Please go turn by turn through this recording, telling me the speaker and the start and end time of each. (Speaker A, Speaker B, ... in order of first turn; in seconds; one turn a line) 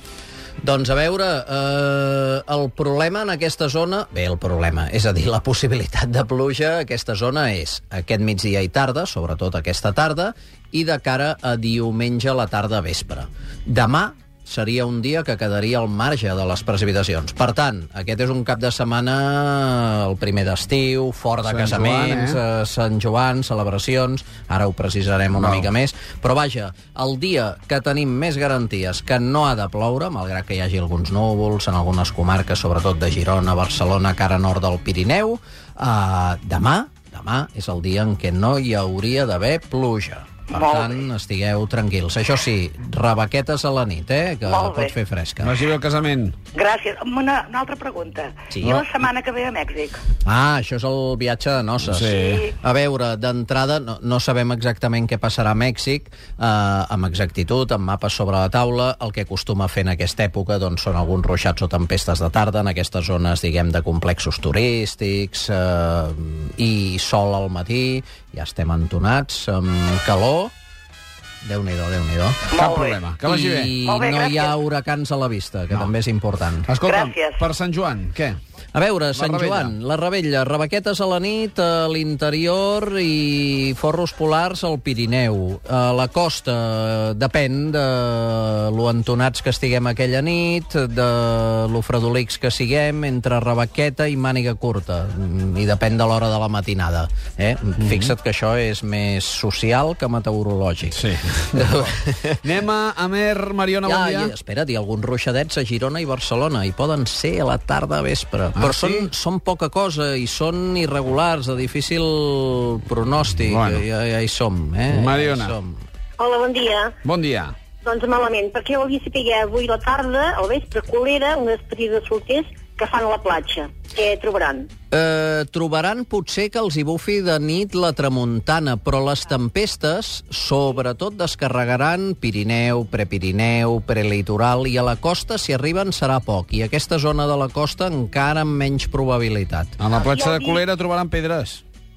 Speaker A: 0.6-45.5
Speaker B: 21.5-22.4
Speaker B: 25.4-25.6
Speaker C: 40.5-41.0
Speaker C: 44.5-44.9
Speaker B: 45.4-46.4
Speaker C: 46.5-50.0
Speaker A: 48.5-48.8
Speaker A: 50.2-70.5
Speaker B: 51.8-52.5
Speaker C: 52.1-52.5
Speaker A: 71.4-72.5
Speaker B: 72.5-73.7
Speaker C: 72.6-73.1
Speaker A: 73.2-76.7
Speaker C: 73.8-74.5
Speaker B: 76.7-78.4
Speaker C: 76.8-77.4
Speaker A: 78.7-101.0
Speaker B: 79.1-79.7
Speaker B: 100.9-101.9
Speaker A: 101.5-102.5
Speaker B: 102.4-104.3
Speaker A: 103.8-115.8
Speaker B: 108.5-109.1
Speaker B: 113.4-113.8
Speaker B: 114.9-115.5
Speaker D: 116.2-116.9
Speaker B: 117.0-117.5
Speaker D: 117.8-124.7
Speaker A: 124.9-139.8
Speaker B: 139.8-141.6
Speaker D: 140.0-140.6